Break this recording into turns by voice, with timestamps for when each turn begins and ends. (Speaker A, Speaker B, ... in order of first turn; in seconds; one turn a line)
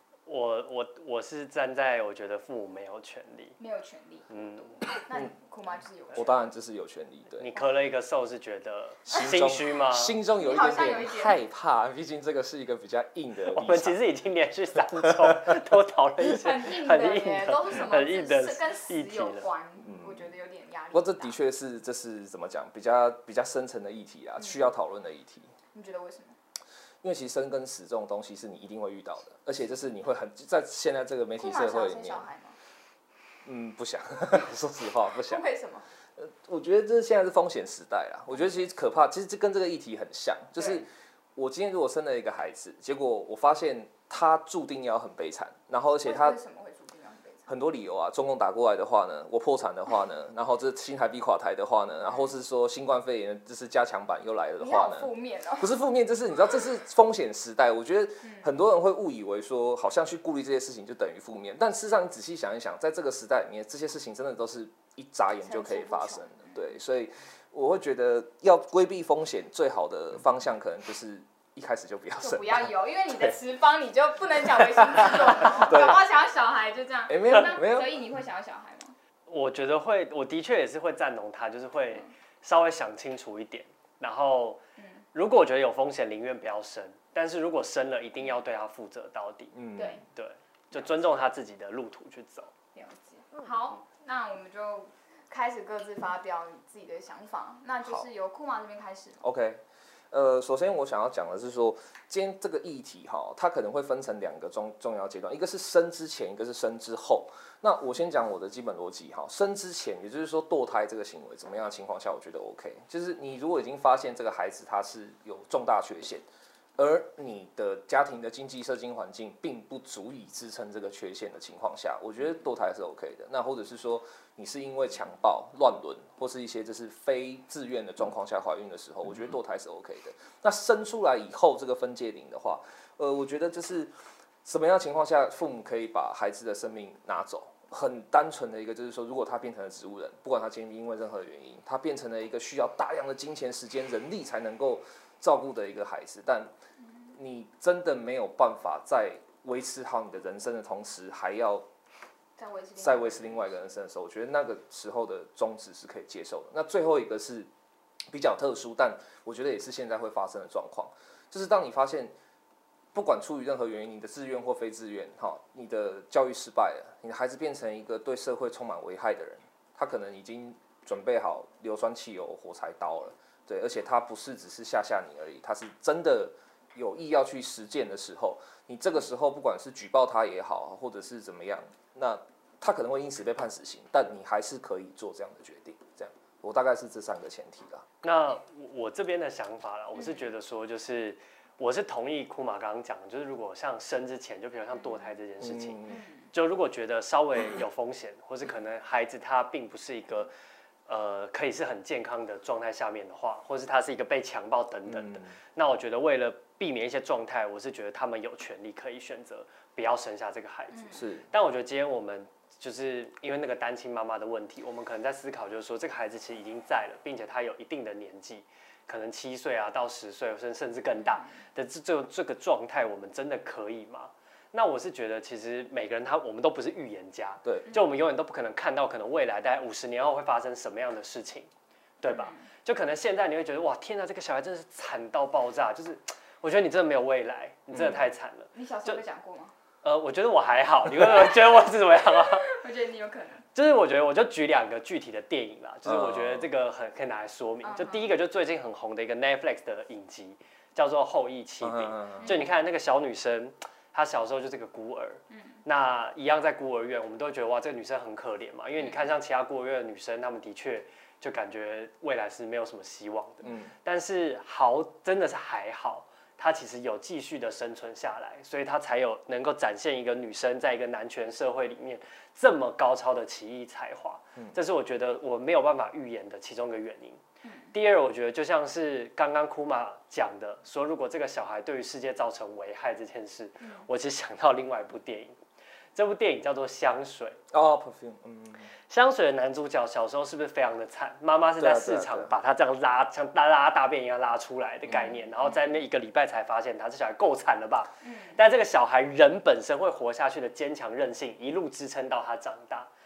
Speaker A: 0.2-3.5
Speaker B: 3.6-6.5
Speaker A: 4.3-4.8
Speaker C: 6.1-7.5
Speaker A: 7.4-10.1
Speaker C: 9.1-14.0
Speaker B: 10.4-11.4
Speaker A: 13.4-19.4
Speaker C: 15.0-15.6
Speaker B: 16.2-21.4
Speaker C: 19.8-20.3
Speaker C: 20.9-25.5
Speaker B: 24.4-24.6
Speaker B: 25.7-26.4
Speaker C: 27.0-32.3
Speaker B: 31.4-32.6
Speaker C: 33.4-35.4
Speaker B: 35.3-35.9
Speaker C: 36.1-46.4
Speaker B: 40.6-40.8
Speaker B: 46.0-47.5
Speaker C: 47.5-73.3
Speaker B: 54.6-55.7
Speaker B: 58.2-58.5
Speaker B: 65.4-66.7
Speaker B: 72.2-78.9
Speaker C: 74.8-76.0
Speaker C: 77.1-77.9
Speaker A: 79.3-84.6
Speaker A: 85.1-89.5
Speaker C: 89.5-90.0
Speaker B: 89.8-90.0
Speaker A: 90.1-92.5
Speaker B: 92.7-99.2
Speaker C: 99.2-116.2
Speaker C: 116.8-133.9
Speaker C: 134.4-146.5
Speaker C: 147.1-151.7
Speaker B: 152.4-153.7
Speaker C: 152.8-157.5
Speaker C: 158.1-162.1
Speaker C: 162.9-187.8
Speaker A: 188.0-195.8
Speaker B: 189.9-190.3
Speaker C: 195.4-196.0
Speaker B: 195.9-196.3
Speaker A: 196.3-200.3
Speaker A: 200.9-231.5
Speaker C: 204.8-205.3
Speaker B: 210.7-211.0
Speaker C: 210.9-211.3
Speaker B: 221.0-221.3
Speaker A: 232.0-239.0
Speaker B: 232.1-232.4
Speaker C: 237.7-238.1
Speaker B: 238.5-239.5
Speaker A: 239.8-242.6
Speaker B: 242.4-243.4
Speaker A: 243.5-277.2
Speaker C: 245.8-246.5
Speaker B: 247.6-248.1
Speaker C: 251.6-252.3
Speaker B: 252.2-252.6
Speaker B: 258.8-259.1
Speaker C: 263.4-263.7
Speaker B: 277.4-277.7
Speaker A: 277.7-285.3
Speaker B: 283.6-283.9
Speaker A: 285.9-287.4
Speaker C: 287.5-288.7
Speaker A: 288.9-302.9
Speaker C: 291.6-292.3
Speaker C: 294.9-295.1
Speaker B: 295.4-295.7
Speaker B: 298.0-298.4